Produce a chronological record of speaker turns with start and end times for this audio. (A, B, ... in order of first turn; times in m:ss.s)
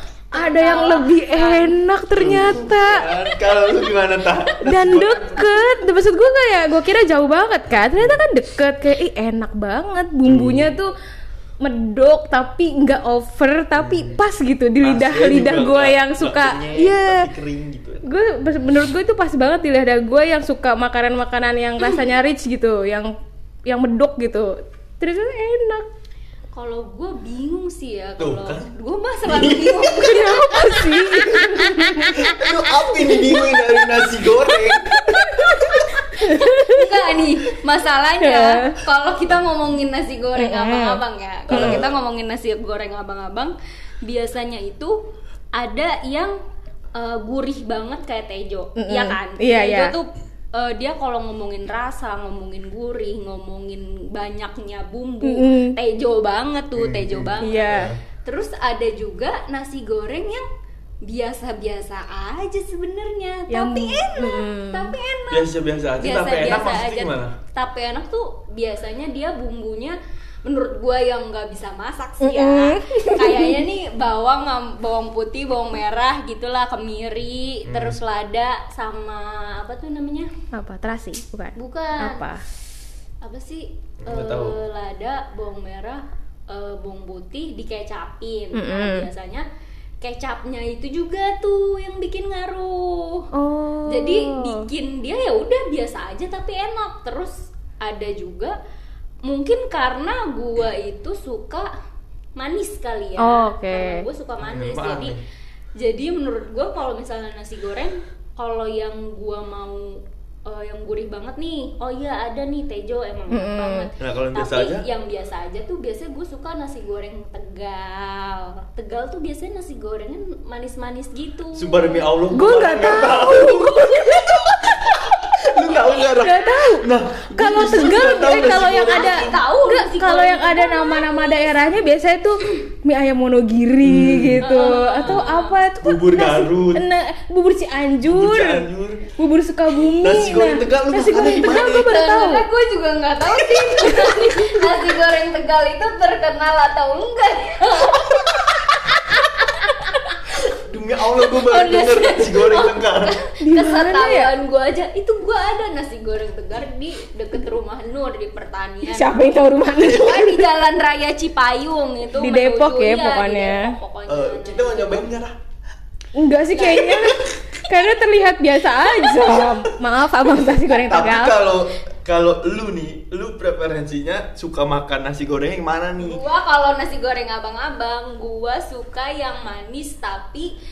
0:00.3-0:01.8 A
0:00.3-0:03.1 B
0:02.2-0:05.6 C
0:04.6-0:10.9 B
0:10.2-0:10.7 C
0:11.6-0:17.3 B
0:13.8-0:14.2 C
0:14.8-0:18.1 C
0:18.0-0:23.1 B
0:23.7-0:25.9 B
0:26.5-0:32.3 A
0:28.2-0:28.7 C
0:29.2-0:30.4 C
0:30.0-0:32.5 B
0:32.1-0:35.9 C
0:35.1-0:36.9 B
0:36.1-0:46.4 A
0:38.2-0:38.8 B
0:40.4-0:41.8 B
0:41.5-0:41.9 C
0:46.9-1:00.5 A
0:48.8-0:49.9 B
0:55.2-0:55.8 B
0:56.8-0:58.0 C
0:57.4-0:57.9 B
1:01.0-1:20.3 A
1:03.5-1:04.9 B
1:05.3-1:07.3 C
1:12.2-1:13.6 B
1:17.7-1:18.0 C
1:20.5-1:22.4 B
1:21.6-1:22.2 A
1:23.2-1:29.5 A
1:24.0-1:24.6 C
1:28.5-1:29.0 B
1:30.0-1:33.3 A
1:33.3-1:34.7 B
1:33.8-1:38.6 A
1:39.2-1:41.7 A
1:42.4-1:45.2 A
1:43.2-1:44.0 B
1:44.4-1:45.2 C
1:45.8-2:02.0 A
1:53.3-1:53.9 B
1:54.0-1:54.8 C
2:01.6-2:09.4 C
2:02.3-2:04.2 B
2:06.1-2:18.6 B
2:07.9-2:11.6 A
2:13.8-2:14.5 C
2:14.4-2:15.6 A
2:15.8-2:16.9 C
2:18.1-2:19.1 C
2:19.2-2:22.4 B
2:20.0-2:21.9 C
2:21.4-2:30.2 A
2:30.5-2:33.2 C
2:31.2-2:45.0 A
2:33.4-2:34.3 B
2:38.8-2:40.4 B
2:42.2-2:43.8 B
2:44.1-2:45.4 C
2:46.1-2:51.4 B
2:46.5-2:47.1 A
2:49.2-2:49.7 C
2:50.8-2:56.2 C
2:56.0-3:00.6 A